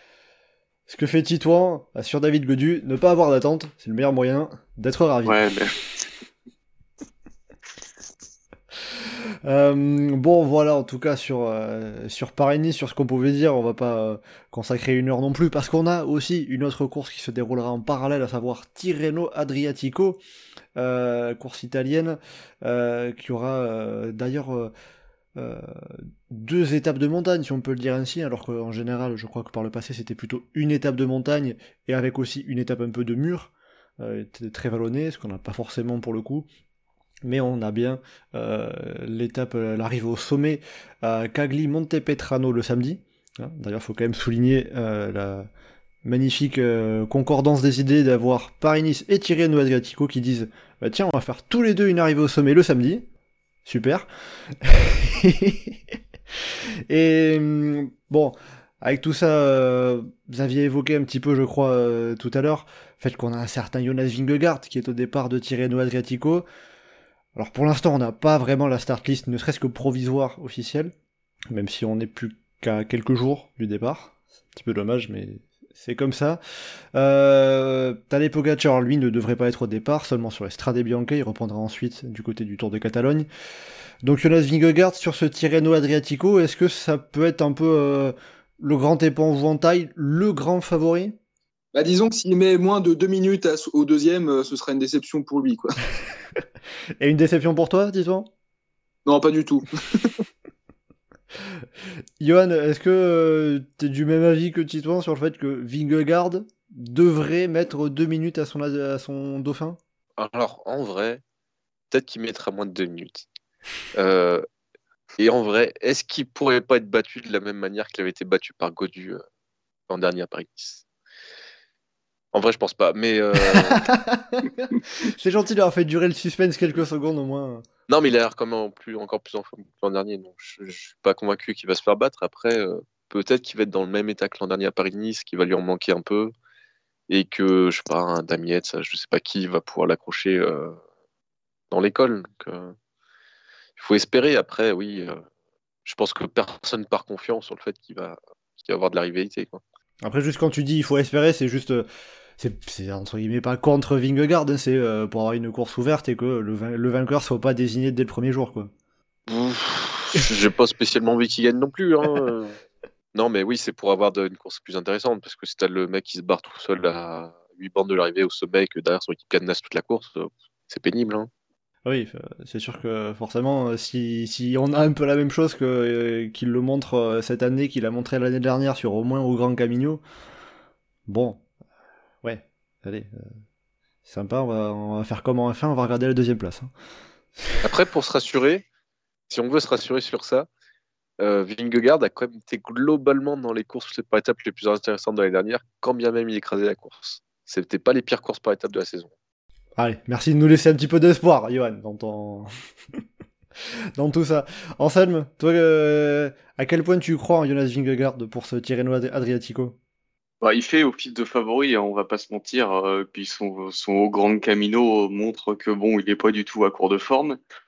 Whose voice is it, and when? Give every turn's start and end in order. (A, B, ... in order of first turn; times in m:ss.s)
0:00.9-0:05.4 A
0:05.2-0:05.8 B
0:08.9-0:20.2 A
0:20.8-0:24.7 A
0:25.4-0:36.5 A
0:37.2-0:45.5 A
0:46.0-0:53.0 A
0:53.6-0:55.8 A
0:56.9-1:06.4 A
1:07.4-1:10.9 A
1:11.5-1:16.4 A
1:16.9-1:23.3 A
1:24.0-1:31.2 A
1:31.7-1:35.8 C
1:37.0-1:38.3 A
1:39.0-1:40.1 C
1:42.2-1:49.8 A
1:50.2-1:51.2 D
1:51.9-1:53.3 D
1:53.9-1:54.4 D
1:55.2-1:59.2 D
1:59.9-2:00.8 D
2:02.3-2:03.8 D
2:03.4-2:07.6 A
2:07.9-2:16.3 D
2:17.1-2:20.8 D
2:21.7-2:22.7 D
2:23.8-2:25.2 D
2:25.8-2:29.6 D
2:30.0-2:31.8 A
2:32.4-2:38.7 A
2:39.3-2:42.6 D
2:43.1-2:51.3 D
2:51.8-3:00.0 A
3:01.1-3:01.4 A
3:02.2-3:03.3 A
3:04.0-3:06.7 A
3:07.6-3:08.6 D
3:09.3-3:10.5 D
3:11.2-3:19.1 D
3:19.8-3:22.5 A
3:24.0-3:29.8 A
3:30.4-3:37.4 B